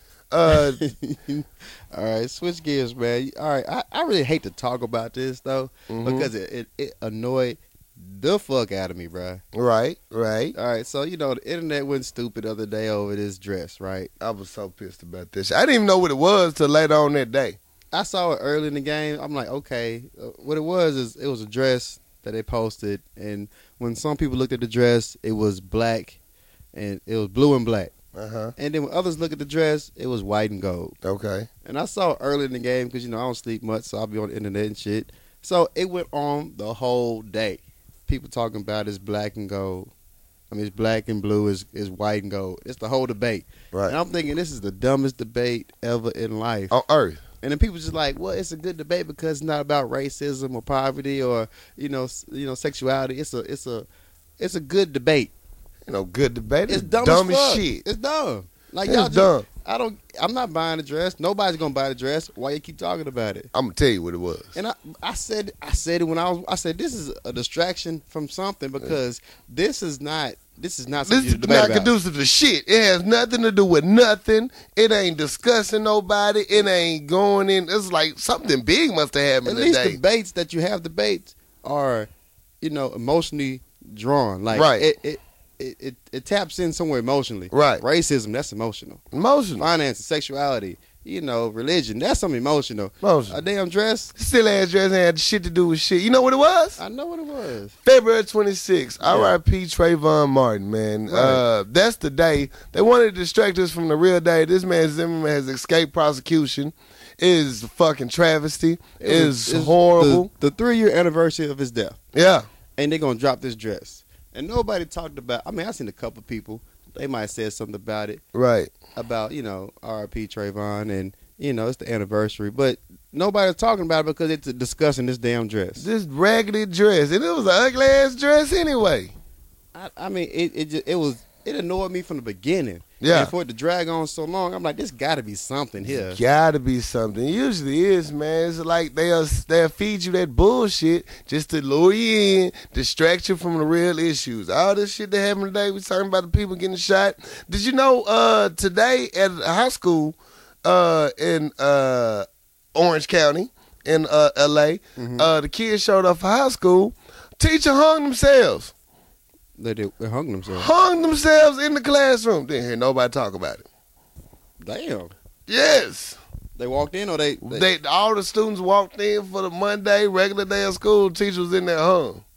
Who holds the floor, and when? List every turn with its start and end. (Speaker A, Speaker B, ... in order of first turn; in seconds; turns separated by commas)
Speaker A: 0.3-0.8, Speaker B: 0.5-9.4, Speaker A: 5.9-6.3, Speaker A: 9.5-10.5, Speaker B: 10.5-14.1, Speaker A: 14.2-17.6, Speaker B: 17.9-26.2, Speaker B: 26.7-27.9, Speaker A: 28.1-28.5, Speaker B: 28.6-30.9, Speaker A: 31.0-31.5, Speaker B: 31.6-39.9, Speaker B: 40.5-46.7, Speaker A: 46.7-47.2, Speaker B: 47.4-53.9, Speaker B: 54.4-55.3, Speaker A: 55.9-57.8, Speaker B: 56.7-63.5, Speaker A: 58.8-59.5, Speaker A: 63.5-64.5, Speaker B: 64.5-71.9, Speaker A: 71.1-80.0, Speaker B: 79.4-82.1, Speaker B: 82.6-89.0, Speaker A: 84.5-84.8, Speaker A: 87.5-87.8, Speaker A: 89.1-89.7, Speaker B: 89.6-94.1, Speaker A: 93.0-93.4, Speaker A: 94.2-96.8, Speaker B: 96.8-97.7, Speaker A: 97.8-110.3, Speaker B: 99.0-99.3, Speaker B: 101.1-101.4, Speaker B: 109.0-112.0, Speaker A: 112.1-112.5, Speaker B: 112.8-118.2, Speaker A: 118.3-118.7, Speaker B: 118.9-125.9, Speaker A: 125.8-129.1, Speaker B: 129.7-136.2, Speaker A: 133.0-133.3, Speaker A: 135.8-158.7, Speaker B: 155.0-155.3, Speaker B: 159.6-160.7, Speaker A: 160.5-163.6, Speaker B: 164.6-165.1, Speaker A: 165.5-166.2, Speaker B: 166.6-167.6, Speaker A: 167.4-172.2